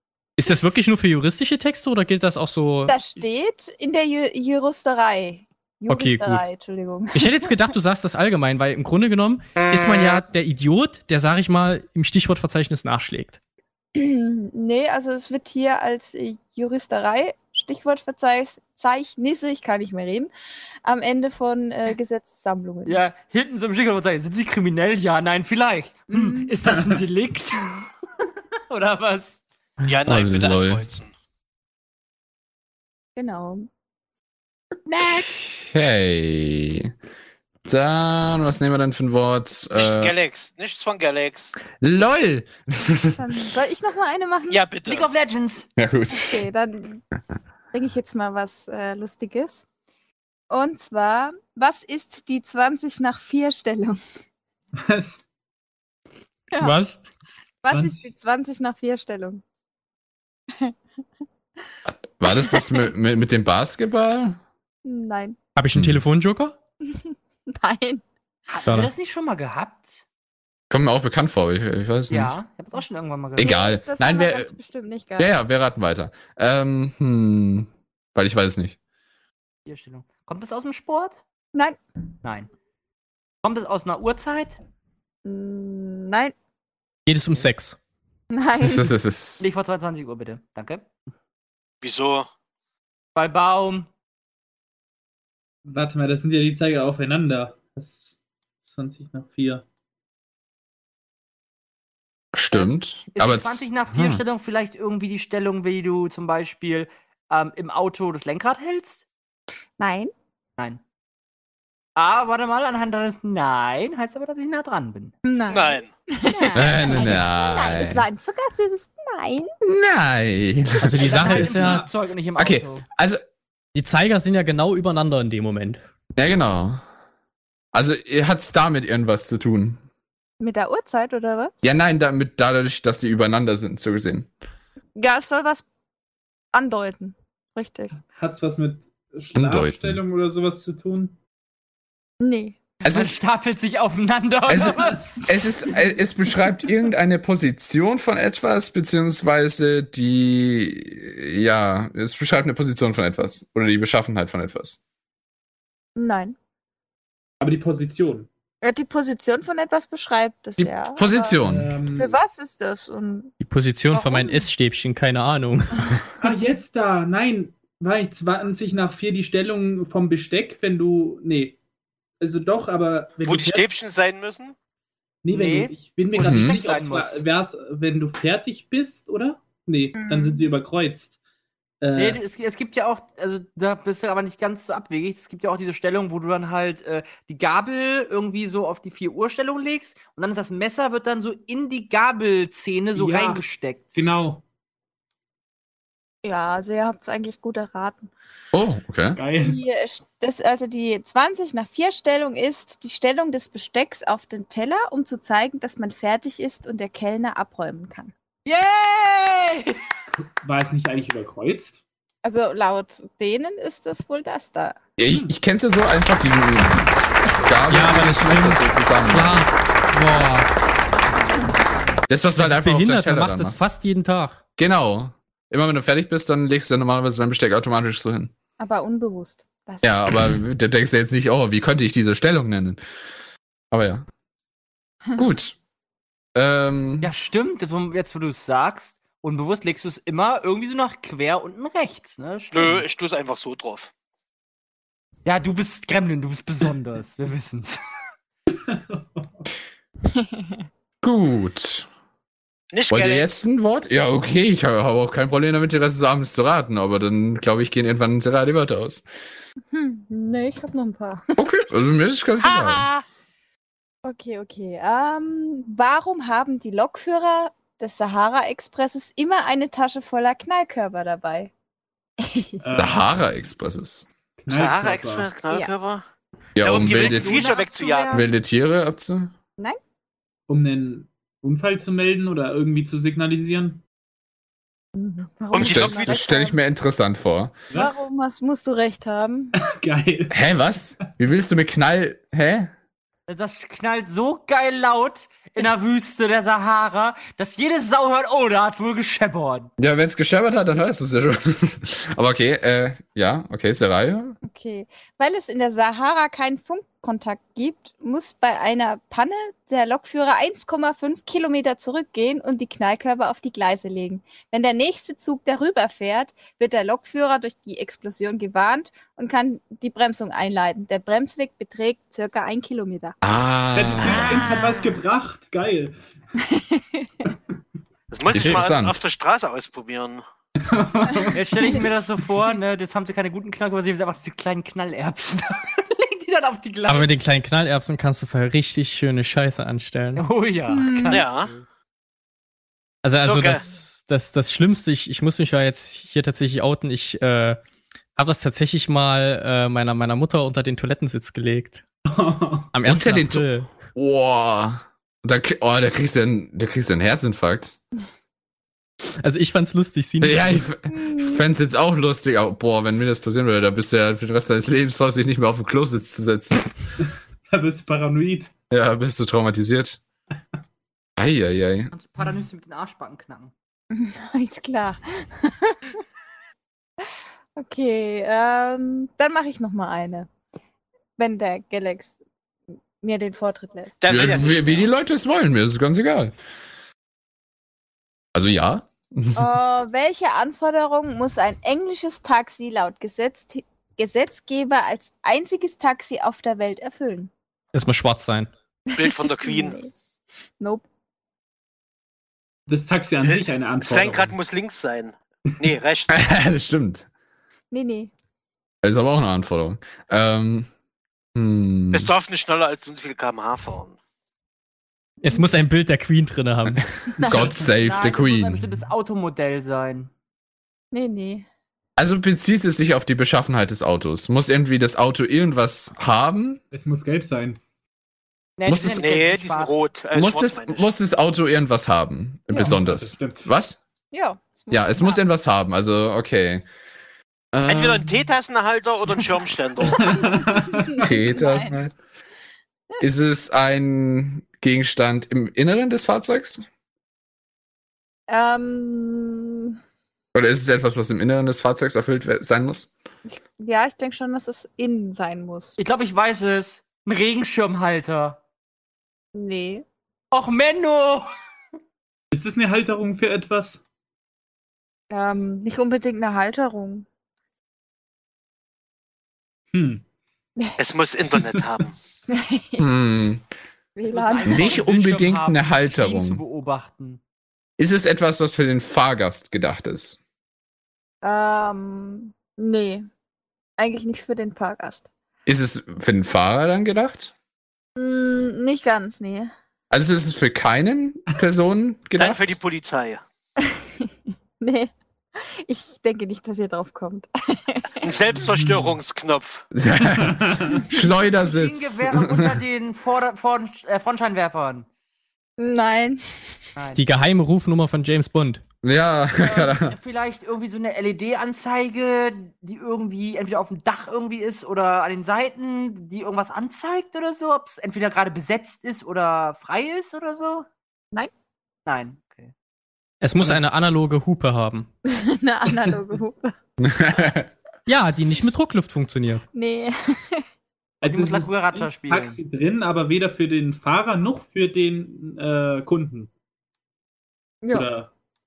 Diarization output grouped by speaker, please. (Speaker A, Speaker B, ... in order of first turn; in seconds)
Speaker A: 0.4-3.0, 5.9-6.4, 7.1-13.4, 56.6-57.0, 65.6-66.6, 87.1-87.8, 120.8-121.8, 123.8-125.8, 163.4-166.0, 217.7-220.5, 222.4-224.4, 336.9-340.2, 343.0-347.6, 348.2-351.8, 352.7-353.7, 359.2-360.7, 397.7-398.5, 415.2-416.9, 506.9-508.6, 523.2-524.9, 527.9-529.5
Speaker B: 2.9-7.7, 13.9-20.3, 20.8-23.0, 26.1-26.5, 33.2-33.7, 43.2-44.6, 46.1-47.0, 47.7-49.6, 50.5-54.0, 56.5-56.8, 57.6-59.4, 62.3-62.9, 64.8-65.4, 66.9-68.0, 73.4-75.3, 85.2-86.3, 88.3-88.9, 109.8-110.1, 115.2-119.5, 130.4-131.6, 135.0-135.7, 136.5-138.0, 142.2-142.6, 156.0-156.4, 158.6-161.4, 162.0-163.3, 163.9-164.5, 179.9-180.5, 196.2-198.1, 199.4-208.1, 212.2-214.8, 228.6-230.1, 250.1-250.6, 259.7-261.2, 264.1-271.5, 272.2-272.6, 285.0-286.6, 287.7-289.6, 304.4-323.2, 326.5-327.1, 340.7-341.3, 360.9-361.4, 373.9-375.8, 377.1-380.3, 381.2-382.1, 383.0-384.3, 389.4-397.3, 398.9-399.9, 400.6-400.9, 407.7-408.1, 417.2-417.5, 420.9-421.5, 434.1-435.2, 440.0-441.8, 448.3-449.8, 453.3-455.8, 459.4-459.9, 465.1-467.1, 472.3-472.8, 474.0-474.8, 481.2-483.1, 483.8-485.1, 488.0-489.5, 493.6-494.1, 494.6-498.1, 505.6-506.6, 509.5-509.7, 525.1-526.5, 529.5-530.4
Speaker C: 22.9-27.9, 28.7-29.4, 34.9-35.5, 44.9-45.7, 68.5-70.0, 72.1-73.6, 79.7-81.2, 82.2-82.5, 83.4-84.6, 89.4-90.9, 93.2-93.9, 102.5-109.0, 112.0-115.1, 121.0-122.8, 142.8-145.3, 175.3-177.2, 181.9-193.9, 208.5-209.8, 237.0-242.8, 245.2-247.8, 276.8-278.3, 293.3-299.7, 331.3-337.2, 340.1-341.7, 371.9-373.5, 417.6-420.1, 428.6-429.8, 455.8-458.4, 460.3-461.3, 474.1-477.2, 501.3-504.9, 506.8-507.1, 509.4-520.7, 521.9-522.5, 531.0-532.4
Speaker D: 29.9-31.1, 39.8-41.5, 44.5-45.1, 91.8-92.3, 115.5-115.9, 173.2-174.6, 242.5-243.9, 252.7-253.4, 262.4-263.0, 274.5-276.0, 276.6-278.3, 285.5-286.2, 328.1-330.2, 341.1-341.5, 343.2-343.6, 384.0-384.9, 399.0-399.8, 403.2-406.3, 411.9-414.0, 429.0-430.9, 437.7-440.2, 470.8-471.9, 492.2-493.2, 498.0-499.7
Speaker E: 30.0-30.8, 35.4-36.9, 37.7-40.1, 41.8-43.2, 45.8-46.5, 62.2-64.4, 65.7-66.0, 70.7-72.4, 73.4-74.5, 75.2-78.8, 88.6-89.4, 102.3-104.2, 116.5-118.1, 119.6-121.5, 122.4-123.2, 126.2-126.8, 127.7-129.8, 131.6-134.3, 139.3-140.0, 142.8-143.2, 144.5-154.8, 160.6-161.7, 176.2-176.6, 198.5-199.2, 215.0-216.9, 217.4-219.4, 222.1-223.7, 224.6-228.3, 229.8-232.8, 233.7-234.1, 235.2-235.6, 236.3-237.1, 251.0-251.9, 252.9-259.1, 261.4-262.9, 272.8-274.1, 276.6-277.4, 278.1-279.3, 285.6-287.6, 290.3-292.7, 299.8-304.4, 323.2-324.6, 328.3-329.0, 352.8-357.8, 360.2-366.7, 368.7-370.0, 371.2-371.9, 384.1-386.3, 388.3-389.5, 406.1-407.1, 408.8-410.7, 411.4-412.1, 416.7-418.6, 422.0-426.6, 428.7-429.0, 430.1-433.8, 434.7-436.6, 437.5-438.1, 441.0-441.9, 443.0-446.6, 450.3-452.9, 472.8-473.4, 474.5-476.4, 477.8-480.2, 485.5-487.3, 489.9-492.6, 499.7-502.6, 508.8-510.0, 526.8-527.5
Speaker F: 54.8-55.2, 57.7-58.0, 95.7-99.6, 121.5-121.9, 138.1-141.2, 157.4-158.3, 161.4-162.2, 166.2-171.6, 172.2-173.7, 175.2-181.1, 181.8-182.2, 192.9-194.4, 199.2-199.6, 210.4-211.8, 248.5-249.5, 272.6-273.1, 274.4-275.4, 280.5-283.8, 287.7-288.0, 289.6-290.4, 323.8-326.0, 330.6-331.8, 352.1-352.8, 367.5-368.5, 402.7-404.4, 426.7-427.6, 432.5-433.5, 439.9-441.1, 462.3-463.8, 469.7-470.0, 498.4-499.0, 500.0-500.9, 523.4-523.7, 531.0-536.3, 537.7-538.1